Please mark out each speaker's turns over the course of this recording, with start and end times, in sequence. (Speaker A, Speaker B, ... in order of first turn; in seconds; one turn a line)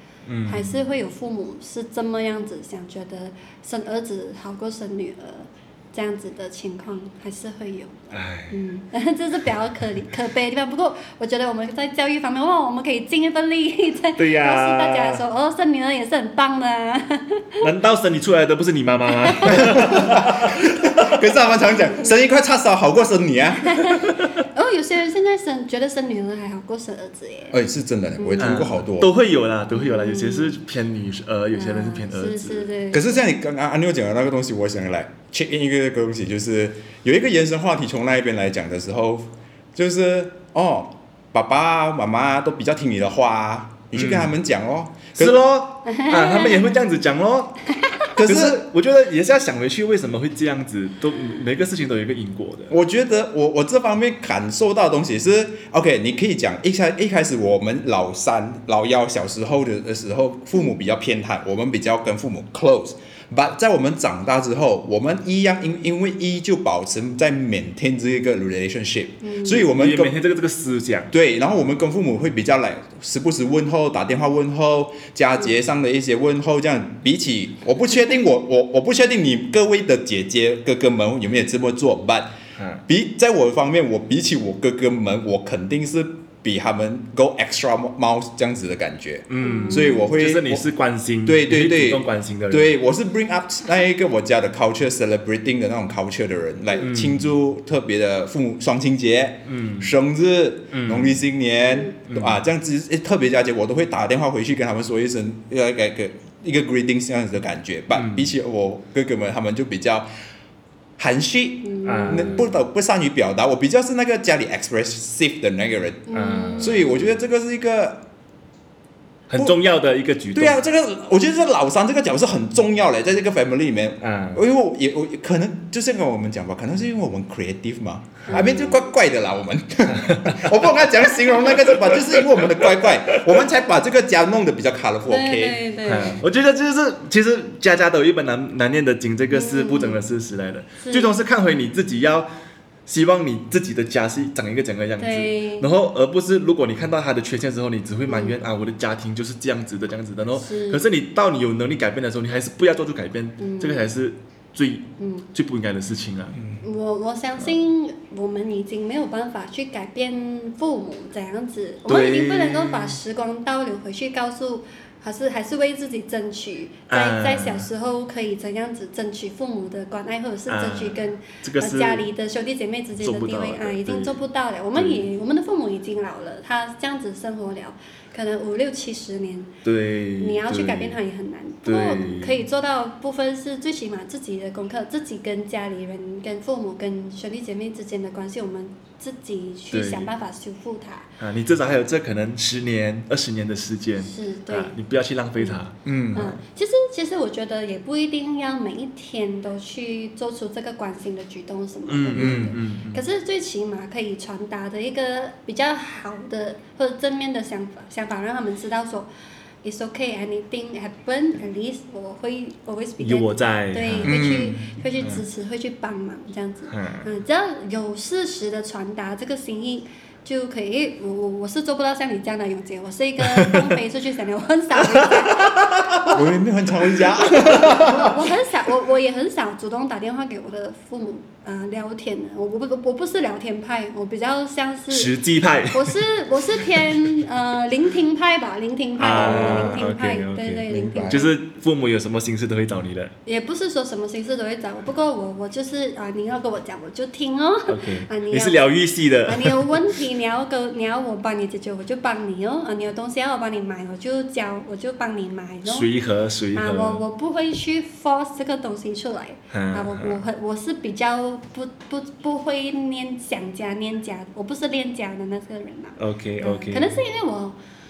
Speaker A: 0.3-0.8
Speaker B: 0.5-17.7
Speaker A: 8.1-8.6
Speaker A: 14.2-15.2
Speaker A: 17.6-20.8
Speaker B: 19.2-20.0
Speaker C: 19.5-23.8
Speaker B: 23.6-27.6
Speaker C: 27.5-29.1
Speaker B: 28.2-28.6
Speaker A: 28.4-32.7
Speaker B: 29.7-30.6
Speaker B: 31.5-33.2
Speaker C: 32.9-45.4
Speaker A: 43.9-44.3
Speaker A: 45.2-52.8
Speaker B: 45.9-46.7
Speaker B: 47.8-48.1
Speaker C: 48.2-48.6
Speaker C: 52.7-70.2
Speaker B: 69.2-69.6
Speaker A: 69.5-71.2
Speaker C: 71.1-82.3
Speaker A: 82.6-82.8
Speaker C: 82.9-90.7
Speaker A: 89.3-92.8
Speaker B: 89.4-90.1
Speaker C: 91.2-110.1
Speaker A: 96.8-97.3
Speaker A: 99.5-100.0
Speaker A: 100.7-101.2
Speaker A: 102.1-102.4
Speaker A: 107.9-108.3
Speaker C: 111.0-118.1
Speaker B: 111.6-112.5
Speaker A: 111.8-112.6
Speaker B: 116.1-116.8
Speaker A: 116.1-117.1
Speaker A: 119.3-120.6
Speaker C: 120.3-135.6
Speaker A: 124.0-124.5
Speaker B: 128.3-128.8
Speaker A: 129.9-130.5
Speaker A: 131.6-132.5
Speaker B: 135.1-136.2
Speaker A: 135.8-142.3
Speaker B: 139.3-140.0
Speaker B: 140.8-141.1
Speaker A: 142.9-156.6
Speaker B: 145.0-145.7
Speaker B: 148.1-148.4
Speaker B: 150.3-150.8
Speaker B: 153.4-153.9
Speaker B: 155.0-155.2
Speaker B: 156.6-179.5
Speaker A: 161.9-163.0
Speaker A: 166.9-167.7
Speaker A: 170.5-172.1
Speaker A: 173.0-174.2
Speaker A: 174.7-175.1
Speaker A: 179.7-181.0
Speaker B: 180.2-191.1
Speaker A: 181.7-182.4
Speaker A: 189.7-190.1
Speaker A: 191.2-196.4
Speaker B: 194.0-194.8
Speaker C: 195.8-196.3
Speaker B: 196.2-209.1
Speaker A: 201.9-203.0
Speaker C: 202.2-202.5
Speaker B: 209.6-226.2
Speaker A: 213.0-214.4
Speaker C: 214.0-214.6
Speaker A: 215.0-215.2
Speaker A: 216.7-217.1
Speaker A: 223.2-223.7
Speaker C: 226.1-228.2
Speaker B: 227.0-235.1
Speaker A: 234.9-236.1
Speaker B: 235.7-241.3
Speaker A: 239.0-243.1
Speaker C: 239.1-239.8
Speaker C: 240.7-241.3
Speaker B: 243.3-248.6
Speaker A: 247.7-249.9
Speaker B: 249.2-255.9
Speaker A: 255.6-257.0
Speaker B: 256.5-267.6
Speaker A: 259.5-260.3
Speaker A: 266.0-267.0